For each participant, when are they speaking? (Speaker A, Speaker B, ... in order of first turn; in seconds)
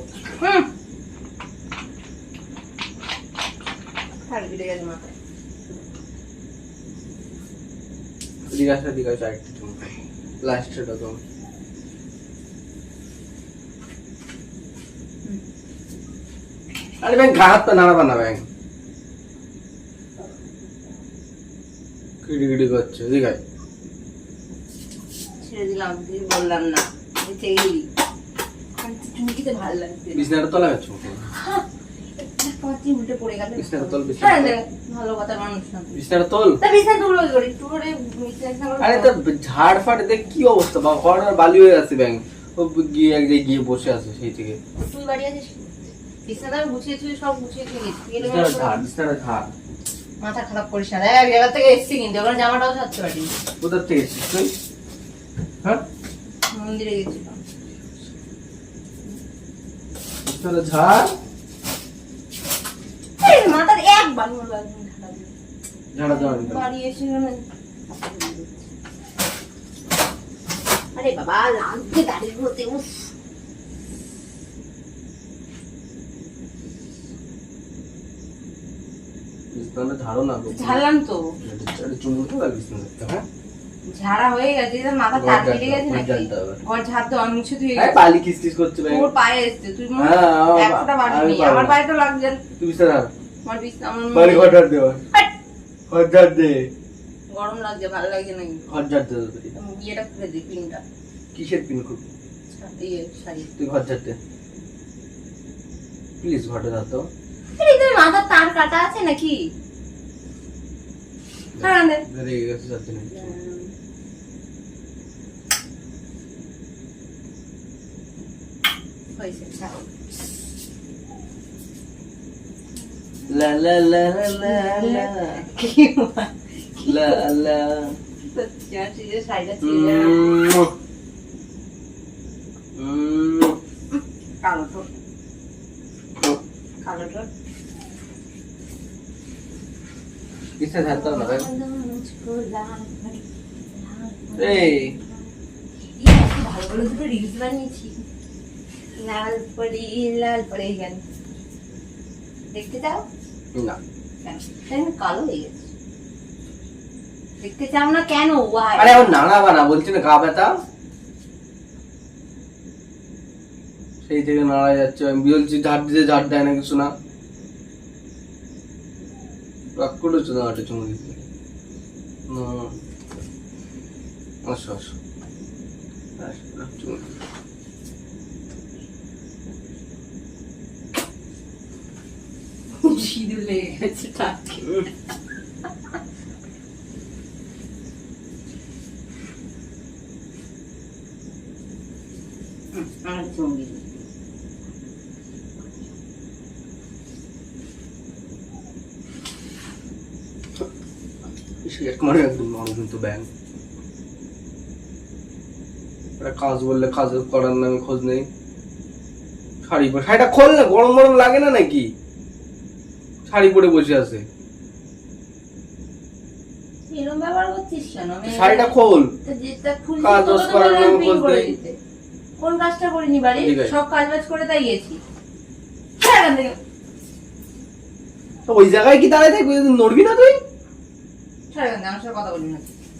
Speaker A: 0.4-0.7, 4.3-5.1, 25.4-27.9, 28.8-30.3, 31.3-31.6, 32.2-35.9, 36.6-39.1, 44.8-48.8, 50.2-53.3, 56.5-57.4, 63.2-65.3, 66.0-68.7, 70.9-73.1, 80.5-81.2, 83.9-88.0, 88.8-92.4, 93.4-94.5, 97.3-98.7, 99.5-100.8, 102.5-103.5, 107.6-109.3, 111.6-112.0, 113.1-113.7, 119.2-120.0, 123.2-123.5, 124.1-127.2, 128.2-130.3, 134.4-134.9, 136.8-137.3, 140.8-145.3, 146.0-148.0, 149.0-151.0, 152.5-153.0, 154.2-155.7, 157.4-159.1, 182.8-184.9, 192.7-193.8, 216.9-221.8, 222.4-225.0, 226.0-226.6, 231.5-232.7
Speaker B: 8.5-11.2, 17.0-18.4, 22.2-23.4, 30.1-31.3, 33.6-34.6, 35.9-36.6, 38.8-44.6, 48.2-49.5, 53.6-54.5, 60.2-61.1, 65.9-66.7, 79.5-80.8, 81.4-83.2, 85.1-86.6, 87.8-89.1, 90.0-91.8, 92.6-93.1, 94.1-95.0, 95.9-96.6, 98.7-99.5, 101.3-102.0, 103.6-104.2, 106.2-107.1, 111.6-113.3, 123.3-125.3, 126.8-128.0, 129.6-130.7, 132.8-133.6, 140.6-141.5, 144.4-144.9, 158.8-160.5, 164.0-166.9, 169.8-171.3, 172.3-172.7, 174.4-174.9, 176.2-177.2, 201.6-203.3, 206.2-208.3, 209.6-211.9, 213.3-214.2, 218.3-219.1, 220.0-221.5, 223.3-223.8, 228.4-230.4